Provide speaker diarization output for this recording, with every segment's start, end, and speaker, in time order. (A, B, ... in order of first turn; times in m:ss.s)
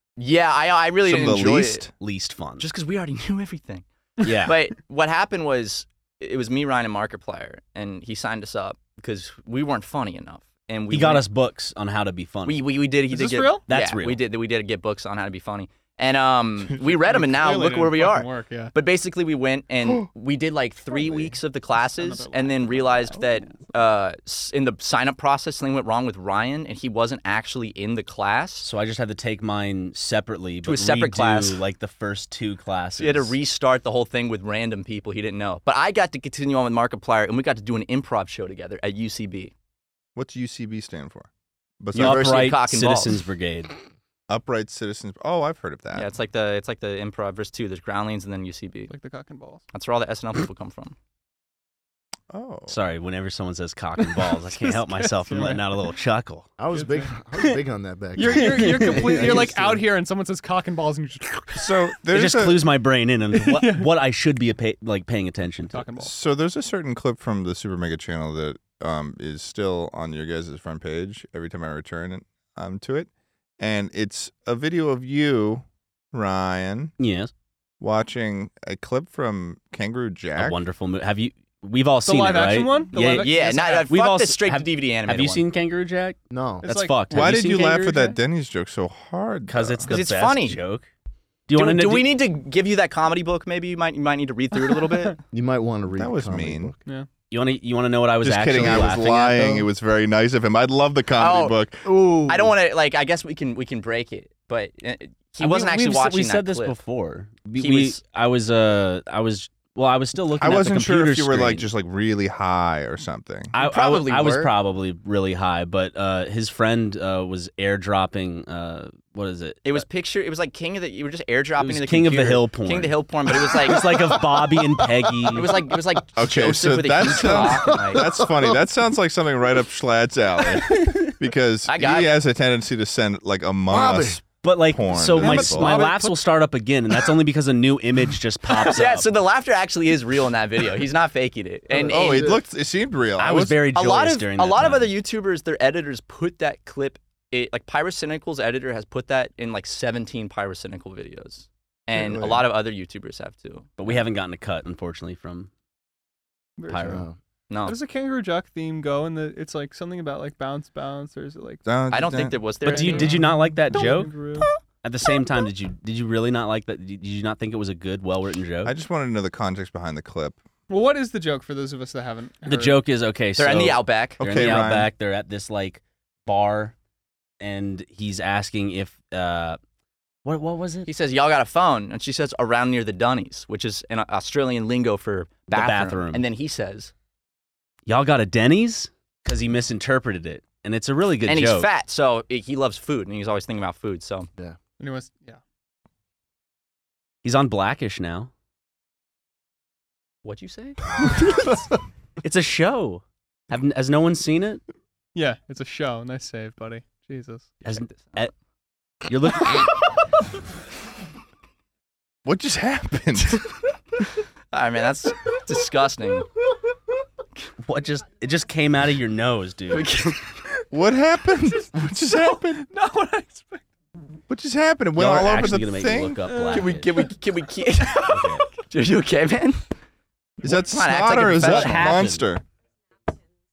0:00.2-0:01.8 A
0:01.0-0:01.9 B
0:02.0-0:02.7 C
0:02.6-0:11.2 A
0:04.2-0:04.5 C
0:10.9-0:12.6 C
0:12.4-0:28.7 A
0:13.1-0:13.6 D
0:13.7-0:14.2 C
0:17.0-0:18.7 D
0:21.8-0:23.5 D
0:28.6-0:33.3 C
0:30.6-0:31.6 A
0:33.0-0:39.5 A
0:40.2-0:41.3 B
0:41.8-0:42.3 B
0:41.9-0:43.7 C
0:41.9-0:43.2 A
0:44.3-0:46.1 B
0:45.9-0:48.9 A
0:48.9-0:49.6 D
0:49.7-0:51.0 A
0:52.3-0:52.8 B
0:52.7-0:56.5 C
0:54.0-0:55.7 D
0:56.6-0:59.8 E
0:56.7-0:57.1 D
0:58.2-1:01.7 D
0:58.2-0:59.6 C
1:01.5-1:02.6 B
1:02.1-1:05.8 C
1:03.4-1:03.9 D
1:05.7-1:06.1 D
1:06.0-1:16.9 B
1:17.0-1:17.3 C
1:17.8-1:20.6 B
1:20.4-1:28.0 C
1:22.0-1:23.9 D
1:23.1-1:25.4 A
1:26.3-1:26.6 E
1:26.6-1:28.2 D
1:27.1-1:29.9 B
1:29.5-1:30.9 C
1:29.9-1:30.6 A
1:31.5-1:32.1 C
1:31.5-1:35.2 A
1:34.6-1:35.2 D
1:35.3-1:36.8 E
1:36.0-1:36.7 B
1:37.3-1:39.7 C
1:38.2-1:41.8 B
1:41.2-1:41.6 A
1:41.8-1:42.5 E
1:42.2-1:46.7 A
1:45.4-1:51.7 C
1:47.6-1:48.0 A
1:50.4-1:53.5 B
1:53.5-1:59.8 C
1:53.6-1:54.5 A
1:59.6-2:03.9 A
2:01.6-2:05.7 C
2:03.8-2:05.4 E
2:05.3-2:08.0 A
2:06.1-2:15.8 B
2:07.1-2:08.6 E
2:11.7-2:12.1 A
2:13.7-2:14.2 E
2:14.4-2:19.1 C
2:15.2-2:16.1 A
2:18.5-2:22.3 A
2:21.7-2:22.4 E
2:21.8-2:23.6 B
2:23.2-2:25.0 C
2:23.7-2:34.0 A
2:31.9-2:32.5 E
2:33.8-2:35.5 C
2:36.6-2:37.0 D
2:36.7-2:37.0 C
2:36.8-2:37.2 E
2:37.5-2:37.8 A
2:37.6-2:41.6 D
2:41.6-2:42.4 B
2:41.9-2:43.2 A
2:42.6-2:44.2 C
2:42.6-2:44.5 D
2:44.8-2:48.7 C
2:48.6-2:50.4 B
2:50.7-2:52.8 D
2:52.4-2:56.7 C
2:53.4-2:54.2 A
2:54.2-2:54.9 B
2:57.4-2:59.6 C
3:00.2-3:00.9 C
3:00.8-3:06.9 A
3:05.5-3:06.2 C
3:07.9-3:11.7 C
3:11.3-3:14.3 A
3:14.8-3:15.4 D
3:17.2-3:18.3 C
3:20.2-3:20.8 A
3:22.2-3:24.6 C
3:25.1-3:27.5 D
3:27.6-3:28.2 A
3:27.6-3:28.3 C
3:29.0-3:29.7 C
3:32.2-3:33.4 B
3:34.5-3:36.3 A
3:37.6-3:39.9 C
3:39.7-3:40.4 A
3:40.7-3:42.6 B
3:42.1-3:43.7 D
3:44.3-3:46.3 B
3:45.0-3:47.1 C
3:46.3-3:47.0 D
3:46.5-3:49.6 A
3:48.0-3:48.4 C
3:50.4-3:52.4 B
3:50.4-3:52.0 A
3:51.3-3:52.2 C